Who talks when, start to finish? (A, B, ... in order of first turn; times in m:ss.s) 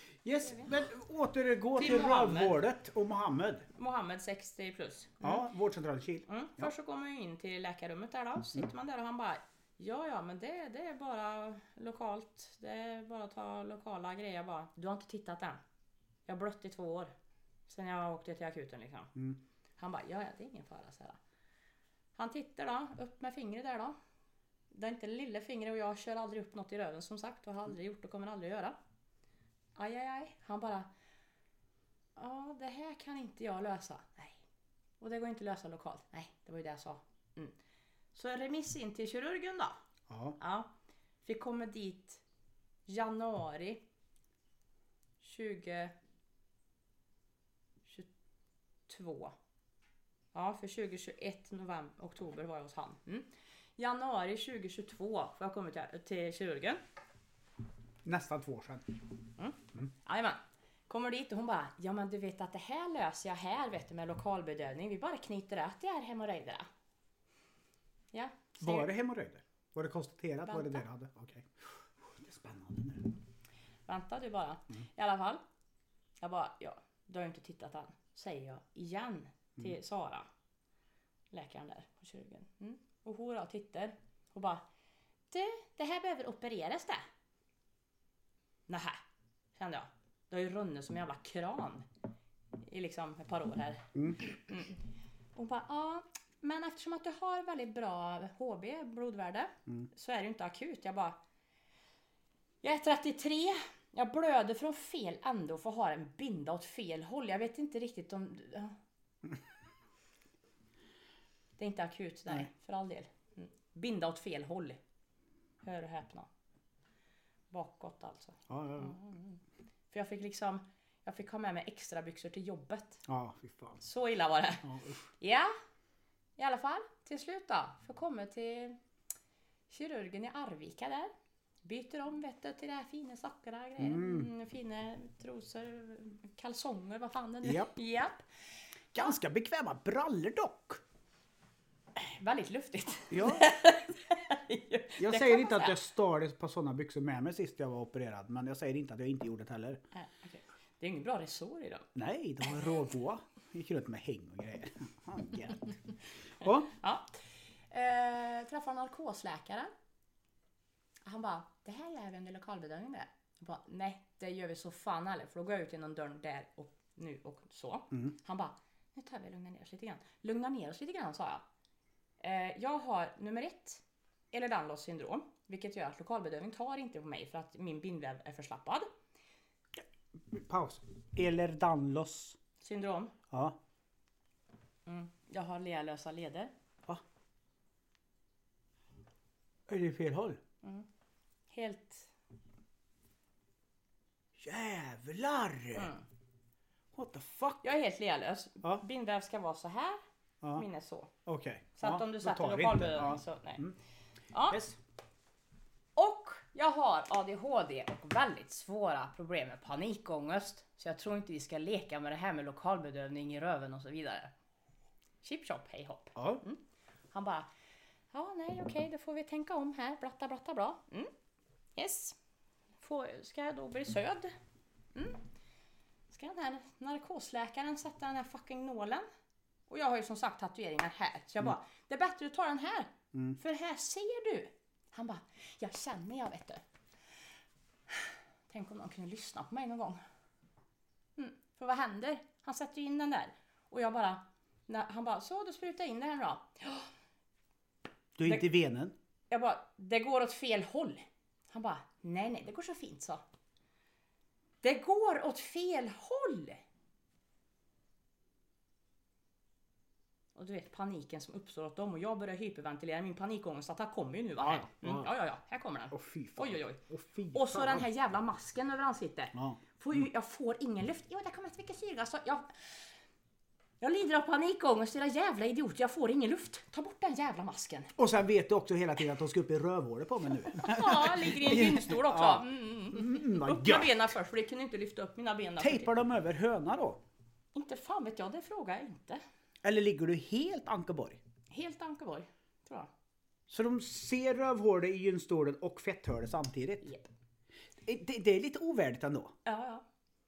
0:00.2-0:03.7 A
0:00.4-0:00.7 B
0:01.8-0:02.6 B
0:03.7-0:05.5 B
0:05.2-0:06.7 A
0:06.3-0:15.6 B
0:16.2-0:17.1 B
0:17.7-0:19.1 B
0:19.8-0:21.2 B
0:22.2-0:24.0 B
0:24.7-0:28.8 B
0:29.8-0:30.9 B
0:32.2-0:34.4 B
0:35.0-0:37.6 B
0:38.1-0:39.8 B
0:40.1-0:40.4 A
0:40.4-0:40.7 B
0:41.2-0:42.2 B
0:42.9-0:43.8 B
0:45.2-0:46.0 B
0:48.9-0:49.3 B
0:50.3-0:56.8 B
0:58.0-0:58.9 A
0:59.4-1:06.7 B
1:08.1-1:08.9 B
1:08.6-1:13.1 A
1:10.5-1:10.8 B
1:13.8-1:15.4 B
1:16.2-1:20.3 B
1:21.3-1:24.6 B
1:25.3-1:27.0 B
1:28.7-1:29.0 B
1:29.5-1:31.8 B
1:32.6-1:34.7 B
1:33.9-1:34.2 A
1:35.3-1:41.2 B
1:42.6-1:48.8 B
1:51.6-1:54.8 B
1:55.6-1:56.3 B
1:57.5-1:59.4 B
1:58.5-1:59.0 A
1:59.9-2:03.0 B
2:03.0-2:03.8 A
2:03.8-2:05.5 B
2:04.6-2:05.0 A
2:06.4-2:08.8 B
2:09.7-2:11.1 B
2:11.6-2:18.2 B
2:13.8-2:14.3 A
2:17.4-2:17.7 A
2:18.9-2:20.8 A
2:22.0-2:25.8 B
2:23.1-2:23.6 A
2:25.0-2:29.8 A
2:29.9-2:31.9 B
2:31.9-2:35.8 A
2:36.4-2:36.7 A
2:36.7-2:39.7 B
2:41.0-2:51.4 B
2:52.2-2:58.9 B
2:59.8-3:02.4 A
3:02.6-3:03.1 B
3:03.3-3:03.6 A
3:04.8-3:06.5 B
3:09.7-3:10.4 A
3:11.5-3:12.1 B
3:14.4-3:15.9 A
3:15.7-3:16.0 B
3:16.9-3:17.6 A
3:17.6-3:20.0 B
3:20.5-3:21.1 B
3:21.2-3:23.8 A
3:21.8-3:23.6 B
3:24.3-3:24.6 B
3:24.5-3:24.8 A
3:26.0-3:34.3 B
3:35.2-3:36.6 B
3:36.1-3:36.4 A
3:37.1-3:37.5 B
3:38.1-3:41.1 B
3:41.8-3:42.2 B
3:42.8-3:44.3 B
3:44.9-3:45.2 B
3:46.1-3:49.1 B
3:49.7-3:56.6 B
3:57.9-4:00.0 B
4:01.2-4:06.9 B
4:08.2-4:08.9 A
4:09.3-4:13.2 B
4:14.6-4:16.6 B
4:20.3-4:26.8 B
4:24.4-4:25.1 A
4:25.9-4:27.9 A
4:27.3-4:32.6 B
4:29.3-4:30.1 A
4:33.8-4:37.9 B
4:38.0-4:44.1 A
4:40.5-4:45.9 B
4:45.6-4:47.0 A
4:47.5-4:49.2 B
4:49.6-4:51.2 A
4:51.5-4:52.9 B
4:53.5-4:56.9 A
4:56.8-4:57.1 B
4:57.8-4:59.3 A
4:59.4-4:59.8 B